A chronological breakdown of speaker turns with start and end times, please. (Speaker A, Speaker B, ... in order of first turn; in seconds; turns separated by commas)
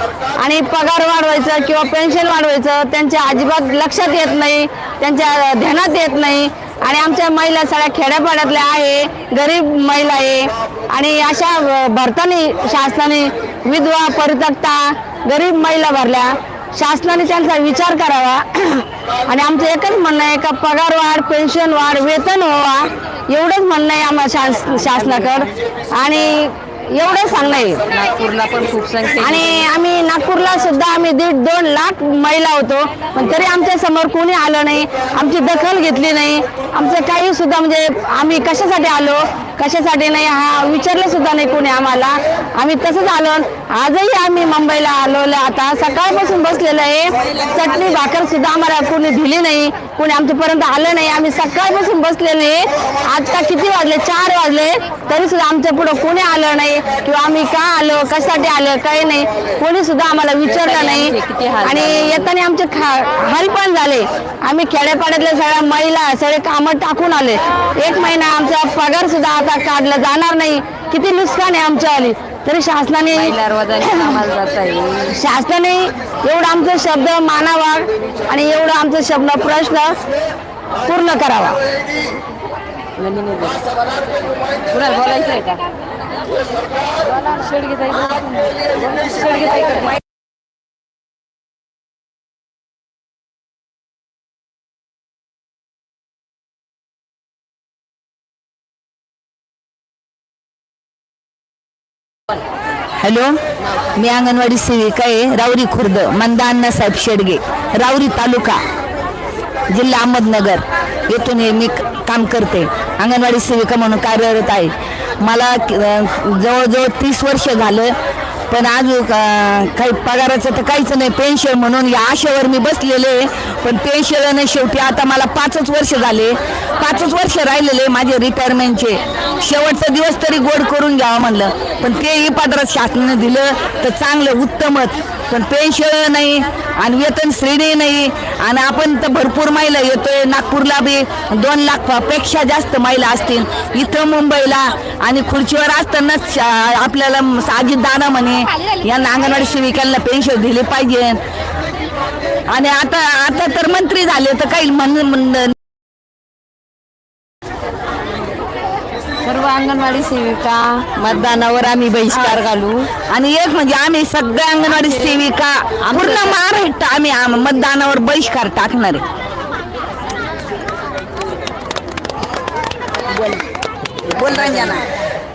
Speaker A: 0.4-27.9, Speaker B: 24.7-25.5, Speaker B: 27.9-29.7, Speaker A: 29.2-74.2, Speaker B: 60.5-62.3, Speaker B: 73.1-75.2, Speaker A: 75.1-80.0, Speaker A: 80.8-81.6, Speaker B: 83.0-83.6, Speaker B: 84.7-85.7, Speaker B: 87.3-88.2, Speaker B: 89.0-89.8, Speaker C: 103.0-103.4, Speaker C: 103.9-108.6, Speaker C: 109.7-117.9, Speaker C: 118.5-151.2, Speaker C: 152.5-155.6, Speaker B: 159.2-162.9, Speaker C: 161.0-162.5, Speaker C: 163.0-169.0, Speaker B: 164.9-165.2, Speaker B: 165.8-166.3, Speaker C: 174.1-174.8, Speaker B: 174.4-174.7